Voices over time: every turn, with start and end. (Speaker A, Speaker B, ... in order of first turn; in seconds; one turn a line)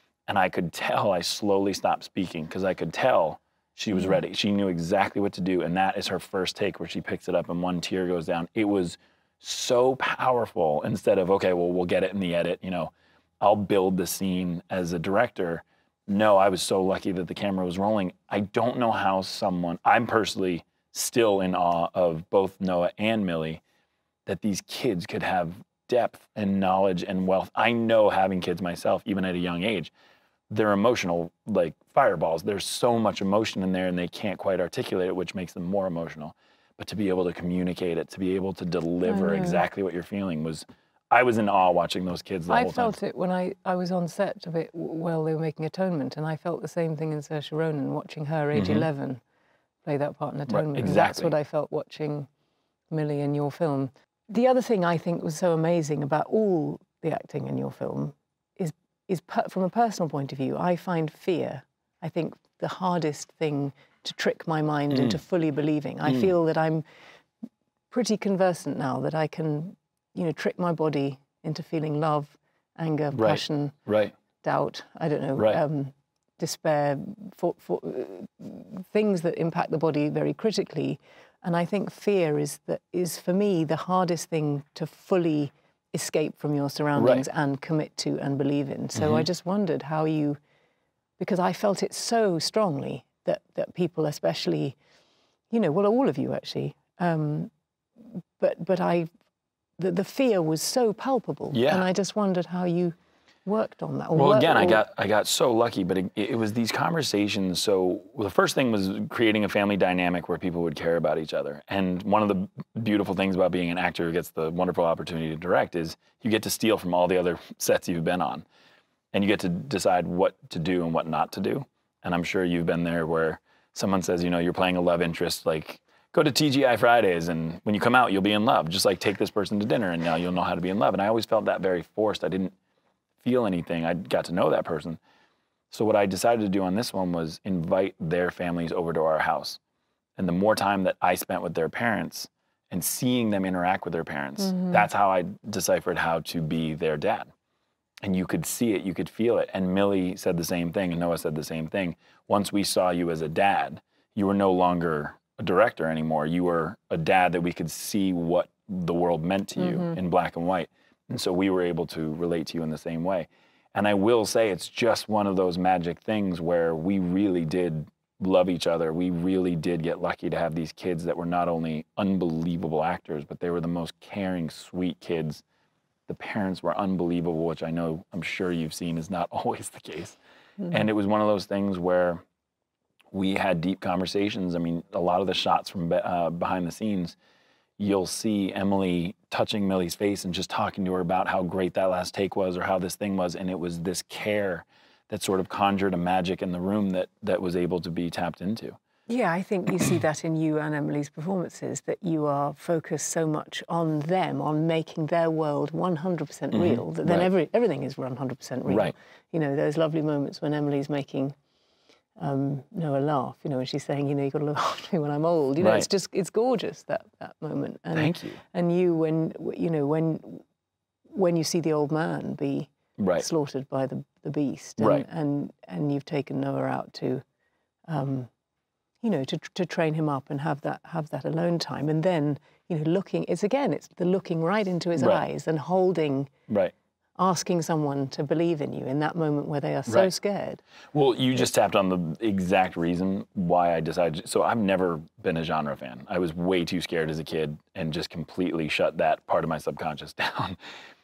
Speaker A: 0.3-23.6
Speaker A: 24.2-29.9
Speaker A: 30.5-42.9
Speaker B: 39.0-39.6
Speaker B: 42.5-49.2
Speaker A: 48.5-48.9
Speaker B: 49.8-52.3
Speaker A: 50.5-51.3
Speaker B: 52.9-66.8
Speaker A: 64.9-65.2
Speaker B: 67.9-73.7
Speaker A: 73.1-74.1
Speaker B: 74.4-90.4
Speaker A: 87.0-87.2
Speaker A: 89.0-89.2
Speaker B: 91.2-94.8
Speaker B: 95.5-97.5
Speaker B: 98.4-99.1
Speaker B: 99.8-104.8
Speaker A: 101.5-101.9
Speaker A: 104.1-118.4
Speaker A: 119.1-132.5
Speaker A: 133.2-135.0
Speaker A: 135.7-139.6
Speaker A: 140.2-147.3
Speaker B: 144.5-144.8
Speaker A: 148.0-175.4
Speaker B: 159.6-160.0
Speaker A: 176.1-180.2
Speaker A: 180.7-182.2
Speaker A: 183.1-187.2
Speaker A: 187.8-198.8
Speaker B: 199.1-211.3
Speaker A: 206.5-207.3
Speaker A: 208.7-208.9
Speaker B: 212.2-220.4
Speaker A: 215.6-215.9
Speaker A: 217.9-218.4
Speaker B: 221.1-227.2
Speaker A: 223.0-223.2
Speaker A: 224.8-225.0
Speaker B: 227.9-228.3
Speaker B: 229.0-236.3
Speaker A: 235.0-235.2
Speaker A: 236.5-236.7
Speaker B: 237.2-240.6
Speaker A: 239.9-240.1
Speaker A: 240.9-250.6